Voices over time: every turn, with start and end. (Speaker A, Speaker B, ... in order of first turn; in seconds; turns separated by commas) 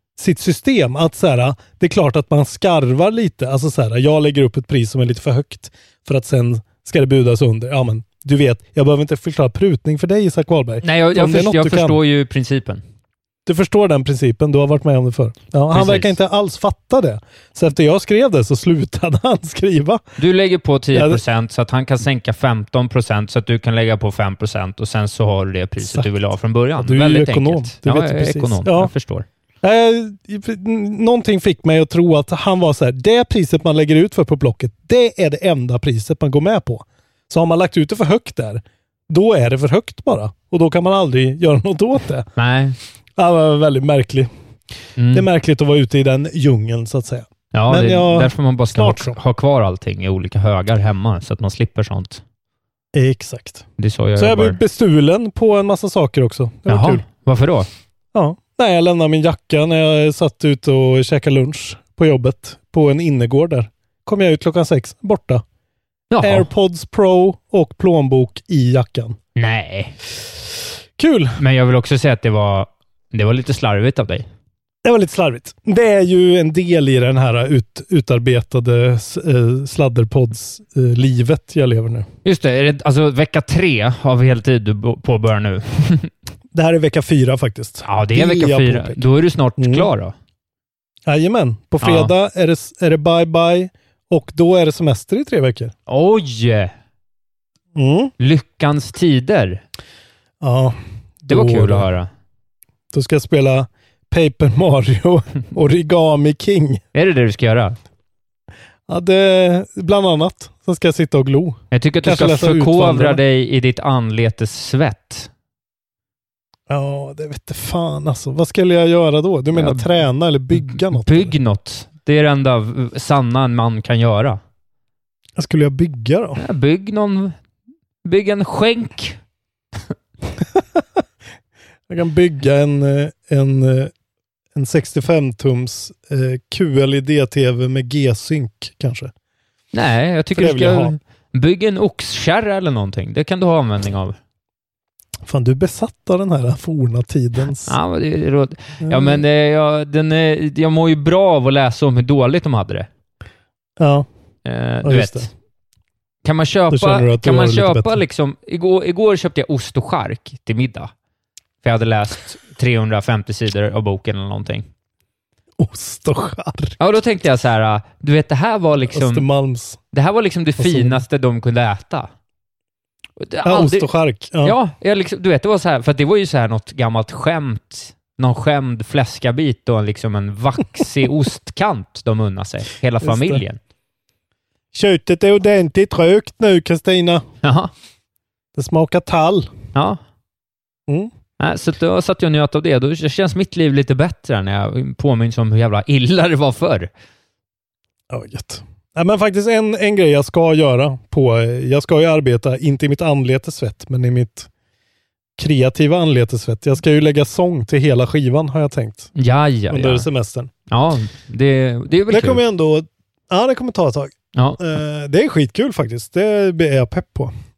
Speaker A: 0.2-12.0, Speaker B: 10.8-12.8, Speaker A: 13.5-20.0, Speaker B: 15.7-16.2, Speaker B: 20.2-29.3, Speaker A: 20.9-21.2, Speaker A: 25.8-26.1, Speaker A: 26.8-28.9, Speaker A: 29.6-42.3, Speaker B: 42.4-42.8, Speaker A: 43.2-44.3, Speaker B: 45.0-45.2, Speaker A: 45.1-49.2, Speaker B: 47.5-52.2, Speaker A: 52.9-53.6, Speaker B: 53.8-54.6, Speaker A: 54.2-57.0, Speaker B: 56.7-57.7, Speaker A: 58.1-65.4, Speaker B: 66.1-66.5, Speaker A: 66.2-69.2, Speaker B: 69.4-70.0, Speaker A: 71.0-71.4, Speaker B: 71.4-74.3, Speaker A: 74.8-82.1, Speaker B: 82.2-86.1, Speaker A: 86.5-89.0, Speaker B: 87.8-90.1, Speaker A: 89.6-89.9, Speaker A: 91.1-95.7, Speaker B: 91.8-92.1, Speaker B: 95.9-96.7, Speaker A: 97.8-98.1, Speaker B: 98.2-99.6, Speaker A: 100.4-101.9, Speaker B: 101.3-102.1, Speaker A: 102.9-106.8, Speaker B: 106.9-107.8, Speaker A: 108.9-113.2, Speaker B: 111.7-115.3, Speaker A: 116.7-121.3, Speaker B: 119.5-119.9, Speaker B: 120.5-124.4, Speaker A: 125.4-126.4, Speaker B: 126.4-127.3, Speaker B: 128.1-129.2, Speaker A: 131.9-133.9, Speaker A: 134.6-139.1, Speaker B: 139.7-144.2, Speaker A: 140.4-141.0, Speaker A: 145.2-147.8, Speaker B: 147.7-152.9, Speaker A: 148.8-149.2, Speaker A: 153.8-154.1, Speaker B: 154.4-155.3, Speaker A: 154.8-155.3, Speaker B: 156.2-160.9, Speaker A: 156.7-158.0, Speaker B: 161.6-164.7, Speaker A: 165.6-166.8, Speaker B: 166.8-169.3, Speaker A: 168.9-169.8, Speaker B: 169.9-172.1, Speaker A: 170.6-171.0, Speaker B: 173.2-183.6, Speaker A: 173.4-174.6, Speaker A: 183.0-183.4, Speaker A: 184.7-187.2, Speaker B: 187.4-187.7, Speaker A: 188.6-189.5, Speaker B: 189.8-190.0, Speaker B: 191.4-196.9, Speaker A: 198.1-204.5, Speaker A: 205.4-209.1, Speaker B: 209.2-210.1, Speaker A: 209.7-210.5, Speaker B: 210.7-212.4, Speaker A: 212.1-217.3